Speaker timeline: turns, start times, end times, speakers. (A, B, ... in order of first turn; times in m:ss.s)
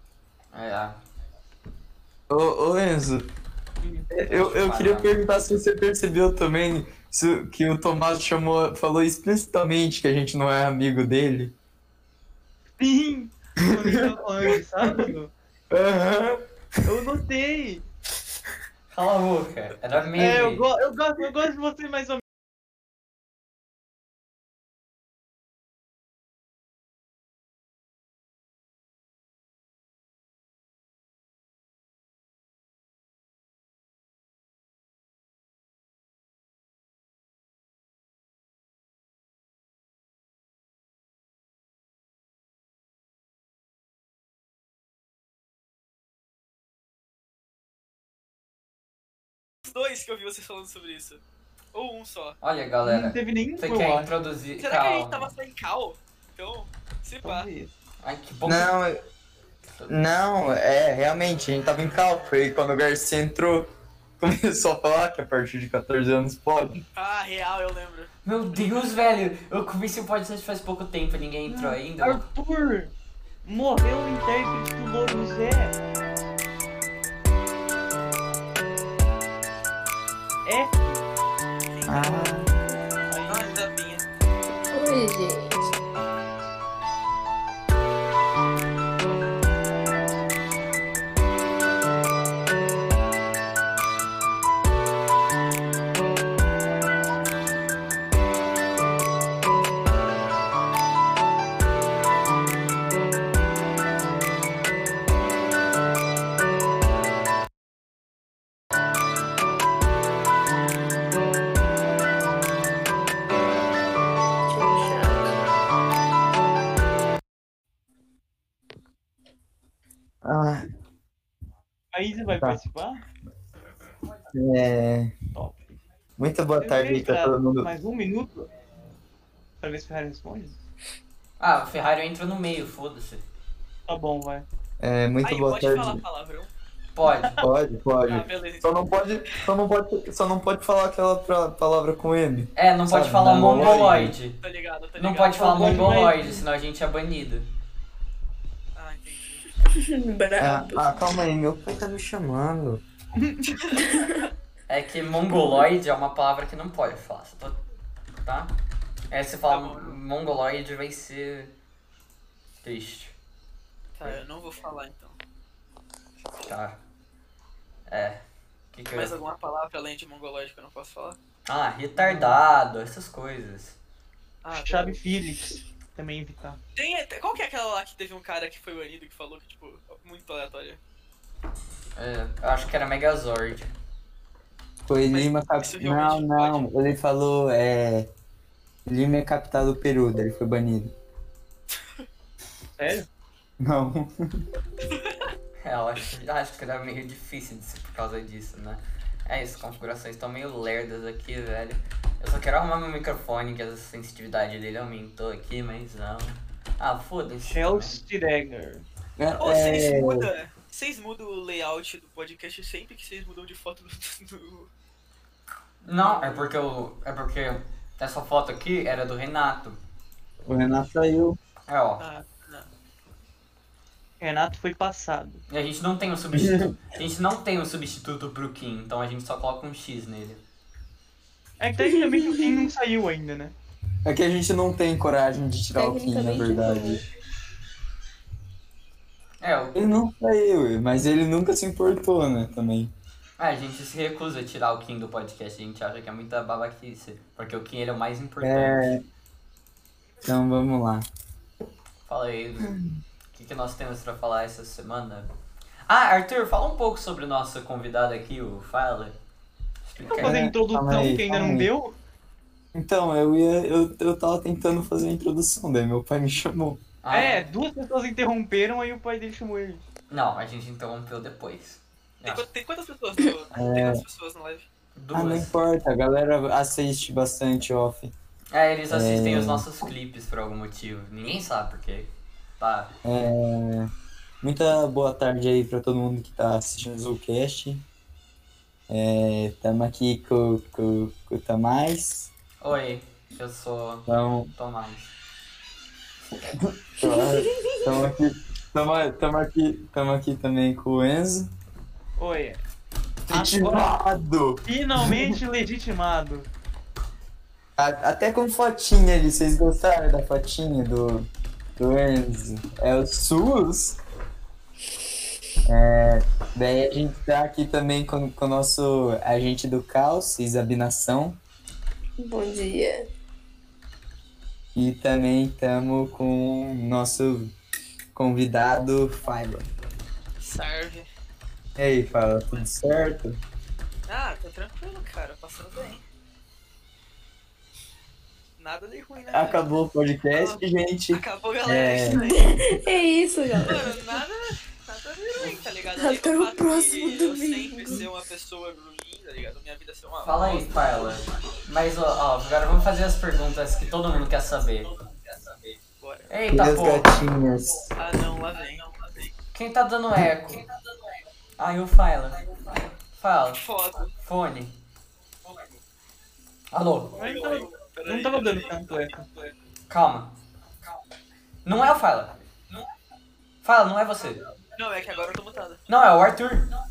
0:00.5-0:01.0 A
0:02.3-0:03.3 B
0:03.8-0:04.1 C
0:04.1-0:11.5 B
0:04.2-0:05.5 A
0:12.8-0:15.3 C
0:13.6-0:15.1 B
0:15.7-0:16.4 B
0:16.8-0:17.8 C
0:18.9-0:20.7 A
0:20.1-0:22.2 C
0:49.6-0:51.2 D
0:51.7-0:52.4 D
0:52.4-0:55.3 A
0:52.8-0:54.1 C
0:54.6-0:57.5 D
0:57.2-0:57.7 C
0:58.0-0:58.7 A
0:58.4-0:59.0 B
0:59.9-1:03.7 B
1:04.2-1:06.8 B
1:06.9-1:08.1 D
1:08.2-1:12.2 A
1:11.5-1:12.9 C
1:13.4-1:15.8 C
1:20.4-1:21.0 C
1:21.7-1:22.4 D
1:21.9-1:22.5 B
1:23.1-1:23.6 C
1:23.3-1:24.1 D
1:24.7-1:25.6 E
1:54.5-1:55.2 E
2:00.2-2:00.6 B
2:01.9-2:03.0 C
2:04.3-2:05.1 B
2:05.3-2:05.8 C
2:06.2-2:07.7 B
2:06.6-2:08.4 C
2:09.6-2:10.6 C
2:11.4-2:13.2 A
2:13.9-2:14.4 C
2:14.8-2:16.0 B
2:15.2-2:16.5 D
2:16.9-2:17.4 A
2:17.1-2:17.4 C
2:17.4-2:24.1 B
2:18.1-2:18.7 D
2:22.6-2:24.4 A
2:24.4-2:25.9 D
2:25.0-2:27.5 A
2:25.3-2:26.4 C
2:28.8-2:29.5 D
2:29.7-2:31.0 E
2:30.4-2:32.8 B
2:33.2-2:33.9 C
2:33.8-2:34.2 E
2:34.7-2:37.6 A
2:38.2-2:38.5 A
2:39.1-2:41.5 A
2:39.5-2:40.0 D
2:42.6-2:43.1 A
2:44.0-2:45.2 D
2:46.4-2:46.8 A
2:47.9-2:48.2 A
2:48.7-2:49.2 A
2:48.9-2:51.2 D
2:51.4-2:53.8 A
2:52.0-2:52.4 C
2:54.4-2:55.4 D
2:54.5-2:56.6 C
2:56.8-3:00.8 D
3:02.0-3:03.7 A
3:04.8-3:08.1 B
3:05.1-3:06.7 D
3:08.9-3:10.9 B
3:12.8-3:13.1 C
3:13.6-3:14.4 B
3:14.9-3:15.3 D
3:15.6-3:28.0 A
3:27.5-3:28.8 C
3:29.2-3:30.3 B
3:29.4-3:34.7 D
3:35.8-3:39.8 A
3:36.0-3:36.5 D
3:40.4-3:41.4 B
3:41.7-3:42.0 A
3:42.0-3:42.7 D
3:44.2-3:45.4 C
3:45.5-3:50.4 A
3:46.3-3:46.8 B
3:51.6-3:53.5 C
3:51.8-3:52.7 E
3:54.0-3:57.0 B
3:55.8-3:57.0 E
3:59.4-3:59.8 A
3:59.7-4:02.9 B
4:03.4-4:09.0 A
4:08.4-4:09.0 B
4:10.2-4:11.1 B
4:12.0-4:12.8 A
4:12.6-4:13.0 B
4:13.3-4:15.3 A
4:15.9-4:19.2 A
4:19.9-4:20.4 A
4:20.0-4:22.0 C
4:20.2-4:21.7 B
4:22.7-4:26.8 B
4:27.0-4:27.5 A
4:27.1-4:29.8 C
4:30.1-4:32.4 A
4:32.2-4:34.6 D
4:33.5-4:34.0 B
4:35.0-4:35.5 A
4:35.1-4:38.1 B
4:38.5-4:42.9 A
4:38.9-4:39.6 B
4:43.0-4:43.9 B
4:44.4-4:47.9 B
4:48.9-4:52.3 B
4:52.6-4:55.1 A
4:54.1-4:54.5 B
4:56.6-5:01.5 B
4:57.0-4:58.0 E
5:02.2-5:02.6 C
5:03.3-5:05.4 B
5:03.3-5:03.9 C
5:04.6-5:06.5 C
5:07.8-5:14.0 B
5:15.6-5:21.4 B
5:22.2-5:23.1 E
5:24.8-5:27.6 B
5:28.1-5:29.7 B
5:30.4-5:31.1 D
5:31.8-5:33.4 B
5:34.1-5:36.0 D
5:38.6-5:39.7 D
5:39.3-5:42.2 B
5:40.3-5:42.8 D
5:42.1-5:44.2 E
5:43.6-5:50.7 D
5:46.0-5:48.1 E
5:50.2-5:54.9 A
5:56.0-5:56.3 D
5:56.3-5:57.1 A
5:56.5-5:57.9 B
5:58.0-5:59.3 D
5:59.5-6:00.6 A
6:01.6-6:02.4 A
6:03.1-6:03.6 A
6:03.5-6:04.1 D
6:04.2-6:04.8 A
6:06.7-6:07.3 A
6:07.2-6:09.3 C
6:07.2-6:09.5 D
6:09.9-6:10.3 A
6:11.6-6:12.4 A
6:13.6-6:14.4 A
6:14.8-6:15.9 D
6:15.9-6:16.7 A